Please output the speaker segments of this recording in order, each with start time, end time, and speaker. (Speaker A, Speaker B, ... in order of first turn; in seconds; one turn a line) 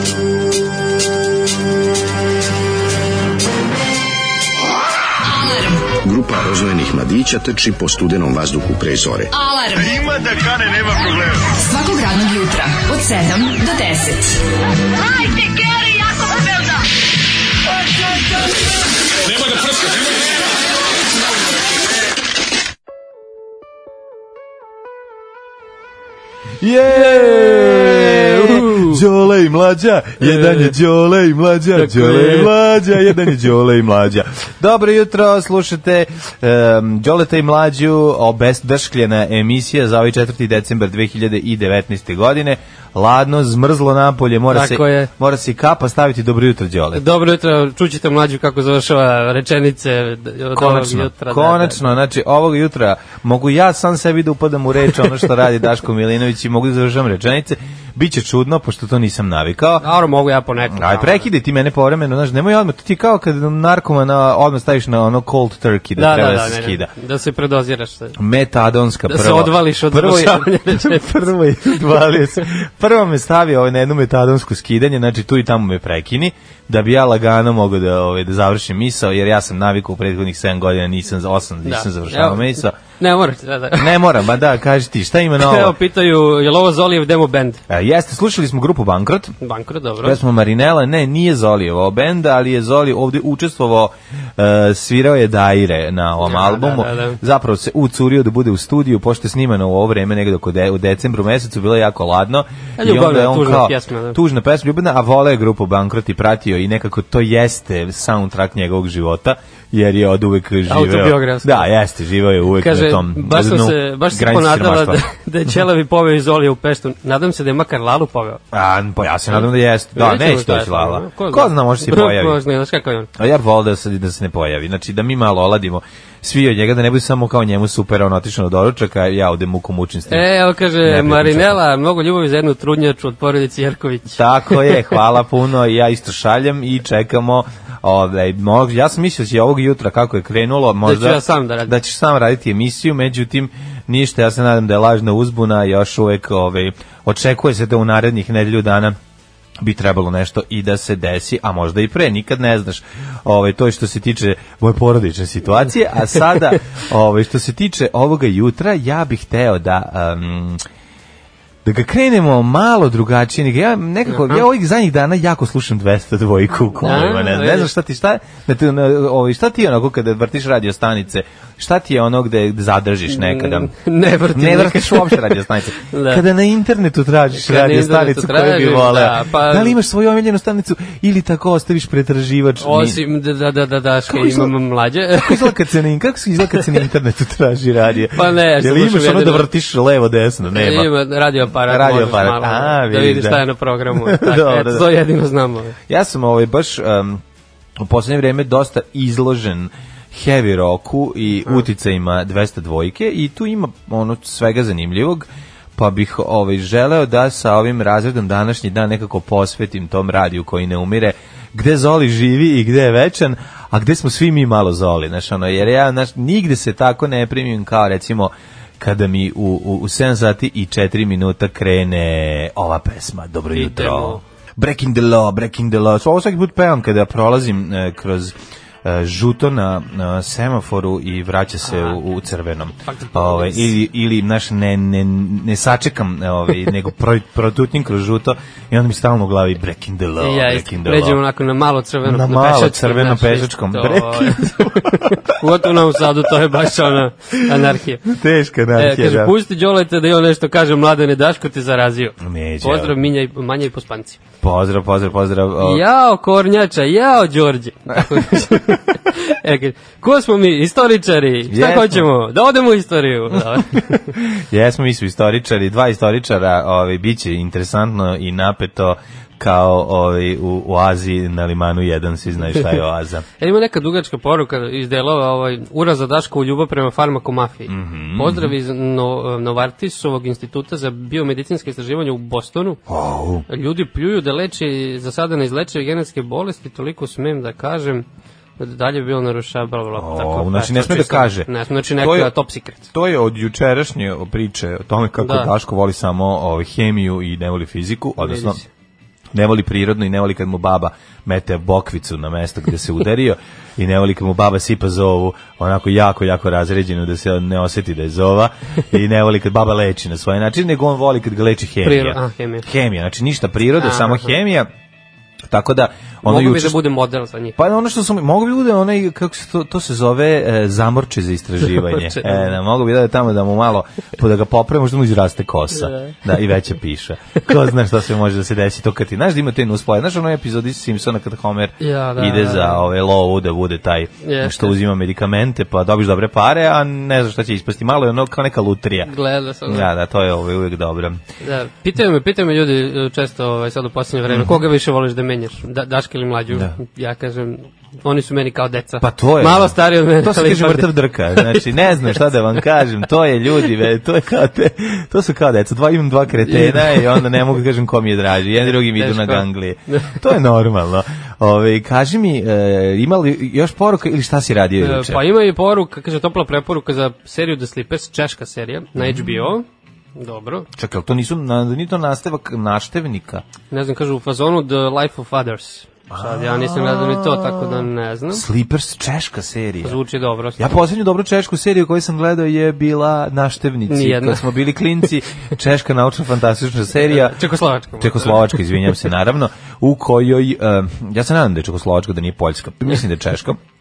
Speaker A: 5.3-5.9
Speaker B: 6.0-9.3
Speaker A: 9.3-10.1
Speaker A: 11.6-14.4
Speaker A: 15.2-16.7
Speaker C: 26.6-47.0
Speaker D: 26.9-29.0
Speaker D: 30.2-30.8
Speaker D: 31.7-33.2
Speaker D: 44.5-45.1
Speaker D: 47.0-51.9
Speaker C: 50.5-59.9
Speaker D: 59.8-61.3
Speaker C: 60.6-66.9
Speaker D: 66.0-68.2
Speaker C: 68.2-82.8
Speaker D: 69.1-71.8
Speaker D: 81.6-84.0
Speaker C: 83.8-85.8
Speaker D: 85.4-87.6
Speaker C: 87.7-89.3
Speaker D: 89.4-90.2
Speaker C: 90.0-115.0
Speaker D: 96.2-97.2
Speaker D: 102.8-104.2
Speaker D: 110.7-111.7
Speaker D: 112.6-118.4
Speaker C: 118.5-122.4
Speaker D: 119.3-123.1
Speaker C: 123.2-130.3
Speaker D: 130.1-134.9
Speaker C: 130.8-131.6
Speaker C: 134.2-149.0
Speaker D: 140.8-141.7
Speaker C: 149.6-160.6
Speaker C: 161.7-173.7
Speaker D: 164.1-164.4
Speaker D: 166.8-167.7
Speaker D: 173.1-176.2
Speaker C: 174.3-183.0
Speaker D: 177.3-179.8
Speaker D: 182.6-185.5
Speaker C: 184.1-184.5
Speaker C: 185.2-190.9
Speaker D: 188.1-189.5
Speaker D: 190.5-195.8
Speaker C: 191.6-194.9
Speaker C: 195.9-197.2
Speaker C: 197.8-241.2
Speaker D: 223.5-224.2
Speaker D: 231.7-232.0
Speaker D: 232.9-233.7
Speaker D: 240.2-248.1
Speaker C: 242.1-245.3
Speaker C: 248.1-249.3
Speaker D: 248.8-254.2
Speaker C: 252.2-253.0
Speaker C: 254.4-255.8
Speaker D: 255.6-264.1
Speaker C: 261.5-262.1
Speaker C: 263.5-273.2
Speaker D: 273.4-282.8
Speaker C: 277.7-278.5
Speaker C: 282.9-283.4
Speaker D: 283.5-288.1
Speaker D: 288.6-292.9
Speaker C: 289.9-292.3
Speaker C: 292.9-298.6
Speaker D: 295.2-295.5
Speaker D: 298.2-298.7
Speaker C: 299.3-314.7
Speaker D: 311.8-312.7
Speaker D: 313.8-314.3
Speaker C: 315.5-316.8
Speaker D: 316.2-317.6
Speaker C: 317.6-339.1
Speaker D: 321.8-322.6
Speaker D: 325.7-326.2
Speaker D: 331.8-332.9
Speaker D: 334.2-334.8
Speaker D: 339.1-339.9
Speaker C: 339.7-341.2
Speaker D: 341.4-351.6
Speaker C: 344.3-344.6
Speaker C: 349.0-365.2
Speaker D: 356.5-357.3
Speaker D: 358.7-360.2
Speaker D: 364.8-369.7
Speaker C: 369.0-369.5
Speaker D: 370.2-370.7
Speaker C: 370.8-373.4
Speaker D: 373.7-378.4
Speaker C: 376.1-380.0
Speaker D: 379.8-380.7
Speaker C: 380.6-387.4
Speaker D: 383.9-384.5
Speaker D: 386.9-388.6
Speaker C: 388.0-393.6